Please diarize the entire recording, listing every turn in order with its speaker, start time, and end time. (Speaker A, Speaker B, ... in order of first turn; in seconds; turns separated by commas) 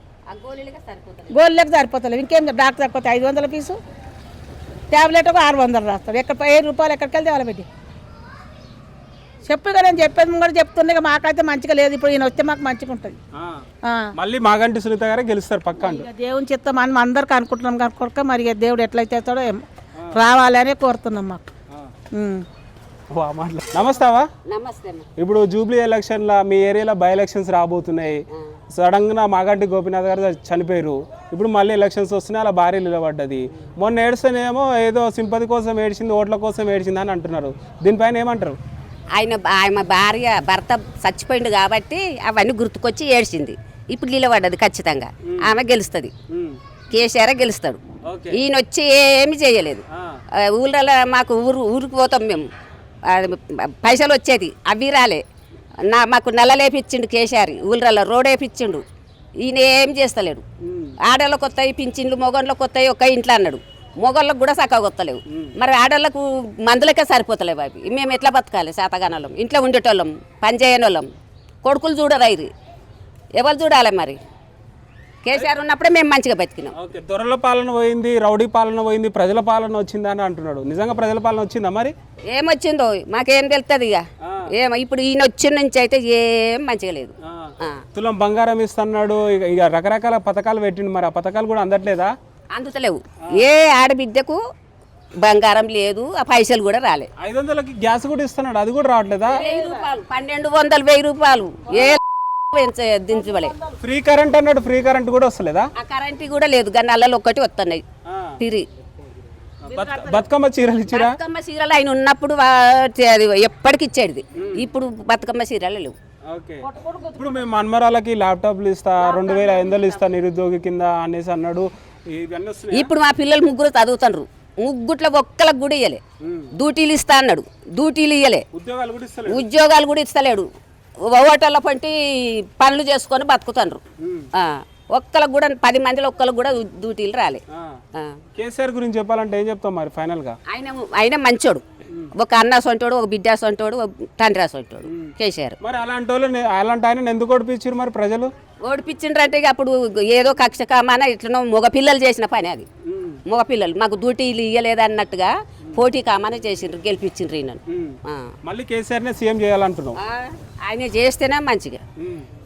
Speaker A: 0.3-1.4, Speaker B: 1.3-3.8, Speaker B: 4.9-7.7, Speaker B: 9.5-13.2, Speaker C: 13.4-13.6, Speaker B: 13.8-14.1, Speaker C: 14.2-16.1, Speaker B: 15.8-21.4, Speaker B: 22.1-22.4, Speaker C: 23.1-24.3, Speaker A: 24.4-25.1, Speaker C: 25.2-38.6, Speaker A: 39.1-46.1, Speaker C: 45.3-45.5, Speaker C: 46.3-46.6, Speaker A: 46.9-47.8, Speaker C: 48.0-48.4, Speaker A: 48.3-49.8, Speaker A: 50.5-52.4, Speaker A: 53.1-55.2, Speaker A: 55.9-58.8, Speaker A: 59.4-60.4, Speaker C: 60.6-61.0, Speaker A: 61.0-71.1, Speaker A: 71.6-72.5, Speaker A: 73.4-74.2, Speaker A: 75.2-76.7, Speaker C: 76.7-81.9, Speaker A: 82.3-87.8, Speaker C: 84.2-84.5, Speaker C: 87.2-92.1, Speaker A: 92.5-94.4, Speaker A: 95.2-97.1, Speaker C: 97.2-99.5, Speaker A: 99.2-102.0, Speaker B: 99.6-99.8, Speaker A: 102.5-103.5, Speaker C: 103.8-105.7, Speaker A: 105.8-107.8, Speaker C: 108.1-108.4, Speaker A: 108.4-108.7, Speaker C: 109.7-111.2, Speaker B: 109.7-110.2, Speaker A: 110.9-115.9, Speaker C: 114.3-114.7, Speaker C: 116.3-116.6, Speaker B: 116.6-117.4, Speaker C: 117.2-122.9, Speaker A: 119.0-119.8, Speaker B: 119.2-119.9, Speaker A: 122.7-126.0, Speaker C: 126.2-126.5, Speaker A: 126.6-128.4, Speaker C: 128.5-129.4, Speaker A: 129.2-130.5, Speaker A: 131.1-133.8, Speaker C: 134.0-134.3, Speaker A: 134.3-137.4, Speaker C: 137.5-137.8, Speaker A: 137.9-138.2, Speaker C: 138.3-140.4, Speaker A: 140.5-141.6, Speaker A: 142.2-145.6, Speaker C: 144.8-148.3, Speaker A: 148.6-152.7, Speaker C: 152.8-153.2, Speaker A: 153.3-158.3, Speaker C: 157.7-160.0, Speaker A: 160.0-161.8, Speaker C: 162.0-162.3